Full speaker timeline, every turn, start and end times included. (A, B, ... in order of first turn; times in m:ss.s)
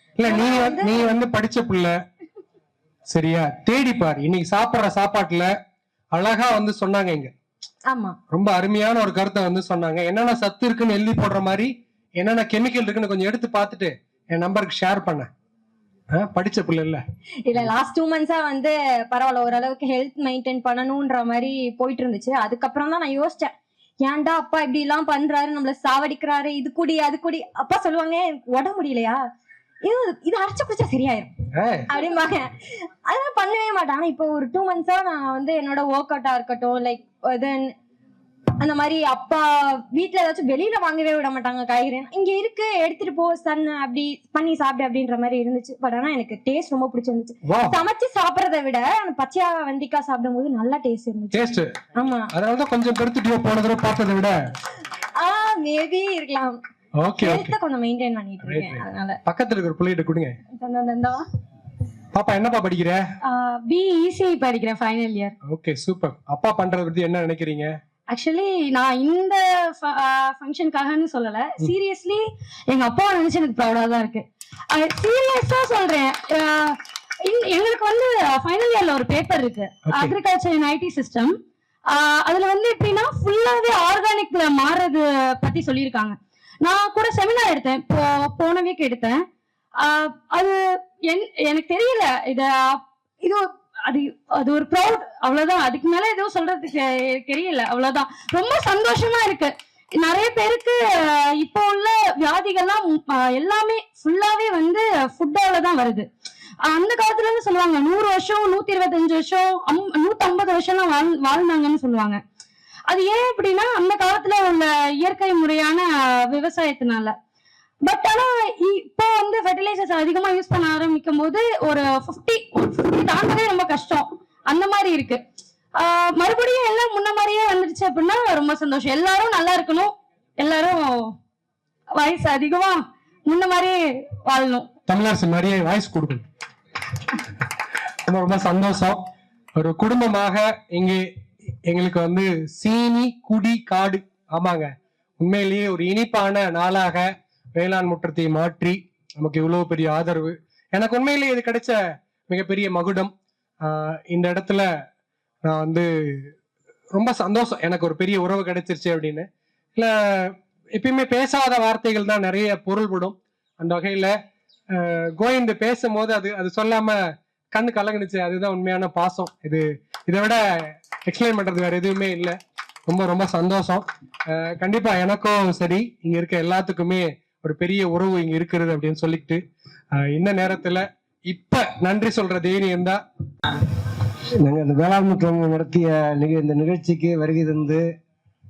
0:00.2-0:01.9 A
0:00.2-0:01.1 B
0:03.1-0:05.5 A
0:06.1-0:07.3 A
0:07.9-0:08.2 B
0:08.3-0:15.3 A
0:16.1-0:17.0 A
0:17.4-0:29.2 B
0:29.8-0:31.3 B
0:31.6-0:31.9 A
0:31.9-0:32.5 B
0:33.0-0:37.7 B
0:38.6-0:52.3 B
0:47.5-0:47.8 A
0:51.3-0:51.7 A
0:52.3-0:54.3 A
0:55.2-0:56.6 B
0:57.0-0:57.5 A
0:57.2-0:59.2 B
0:58.4-1:00.4 A
1:00.6-1:01.2 B
1:02.1-1:03.0 A
1:03.2-1:05.3 C
1:05.5-1:07.7 A
1:08.1-1:21.3 C
1:19.9-1:20.1 A
1:21.9-1:29.2 C
1:29.8-1:46.1 C
1:46.7-1:52.2 C
1:52.9-1:57.2 C
1:57.8-2:05.2 C
2:05.8-2:11.2 C
2:11.9-2:14.7 C
2:14.9-2:16.2 A
2:18.0-2:19.0 A
2:19.6-2:21.0 A
2:21.7-2:33.1 A
2:33.6-2:34.7 A
2:35.4-2:36.3 A
2:36.9-2:44.1 A
2:44.7-2:47.0 A
2:47.5-2:50.4 A
2:51.0-2:59.4 A
2:59.9-3:03.0 A
3:04.4-3:07.8 D